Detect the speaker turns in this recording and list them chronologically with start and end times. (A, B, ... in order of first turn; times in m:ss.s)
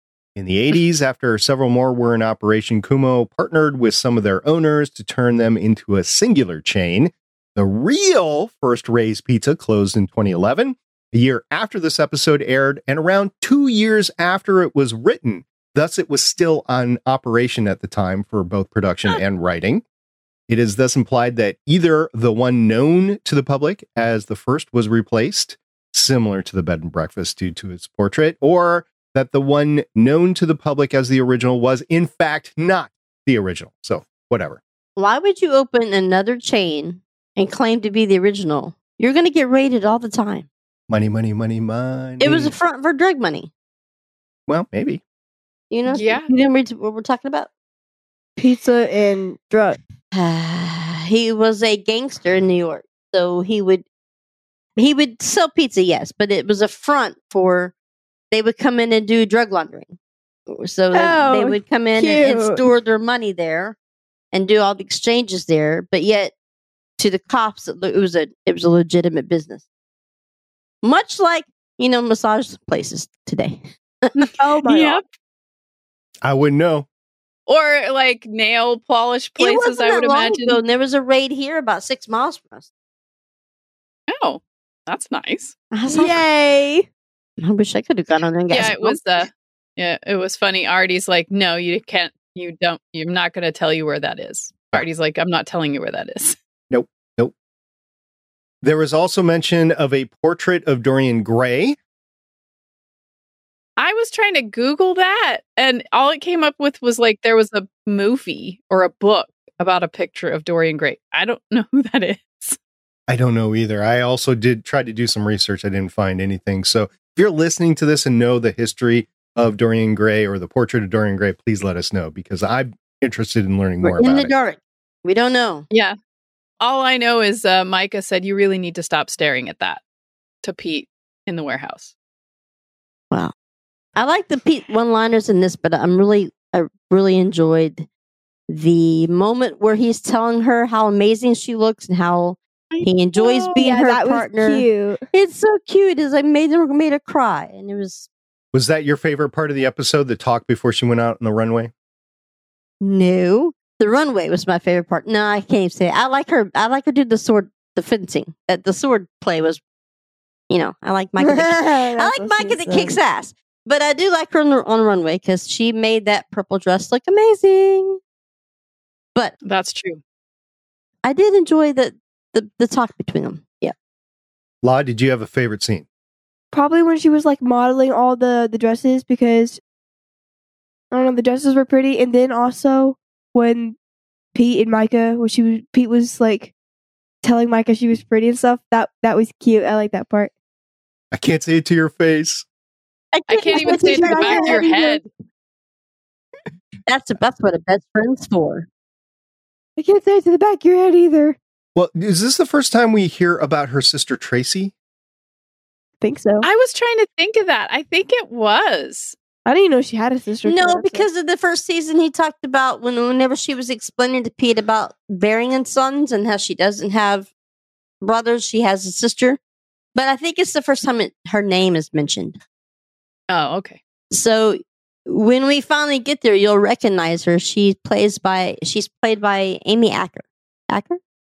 0:00.4-0:19.8 A
0:20.5-0:34.6 A
0:35.0-0:40.5 B
0:40.9-0:42.5 A
0:42.2-0:43.5 B
0:44.5-0:45.0 A
0:45.7-0:47.5 B
0:45.9-0:46.3 C
0:48.4-0:49.8 D
0:50.1-0:53.8 B
0:54.8-0:57.7 B
0:58.3-1:00.0 B
1:00.5-1:03.8 B
1:00.9-1:02.6 D
1:04.3-1:06.3 B
1:07.0-1:09.6 B
1:10.8-1:14.3 B
1:14.2-1:15.0 C
1:14.4-1:15.0 D
1:16.2-1:16.8 A
1:17.5-1:20.6 C
1:19.4-1:22.7 B
1:24.1-1:25.6 C
1:25.7-1:26.2 B
1:25.9-1:26.9 D
1:27.4-1:29.3 B
1:28.5-1:36.4 C
1:36.7-1:37.3 A
1:38.6-1:41.8 A
1:43.8-1:52.6 C
1:53.1-2:04.3 A
2:03.8-2:05.6 B
2:05.7-2:06.0 C
2:06.6-2:09.8 C
2:10.4-2:11.9 C
2:14.0-2:17.9 B
2:18.5-2:28.1 B
2:23.2-2:25.0 D
2:28.5-2:31.7 A
2:32.8-2:39.6 B
2:40.5-2:48.0 B
2:41.2-2:43.0 D
2:49.4-2:50.0 C
2:51.0-2:53.7 B
2:54.6-2:55.8 A
2:56.5-2:59.6 D
3:00.9-3:03.8 D
3:04.3-3:06.5 D
3:07.2-3:10.3 D
3:11.1-3:12.4 A
3:13.1-3:14.6 B
3:13.3-3:15.0 C
3:13.5-3:15.1 D
3:16.9-3:18.7 B
3:19.8-3:21.4 D
3:21.7-3:24.7 A
3:26.0-3:26.5 D
3:26.4-3:29.2 C
3:29.4-3:31.0 D
3:30.4-3:37.3 B
3:38.0-3:39.4 B
3:39.9-3:42.4 B
3:43.3-3:43.8 C
3:44.1-3:51.0 B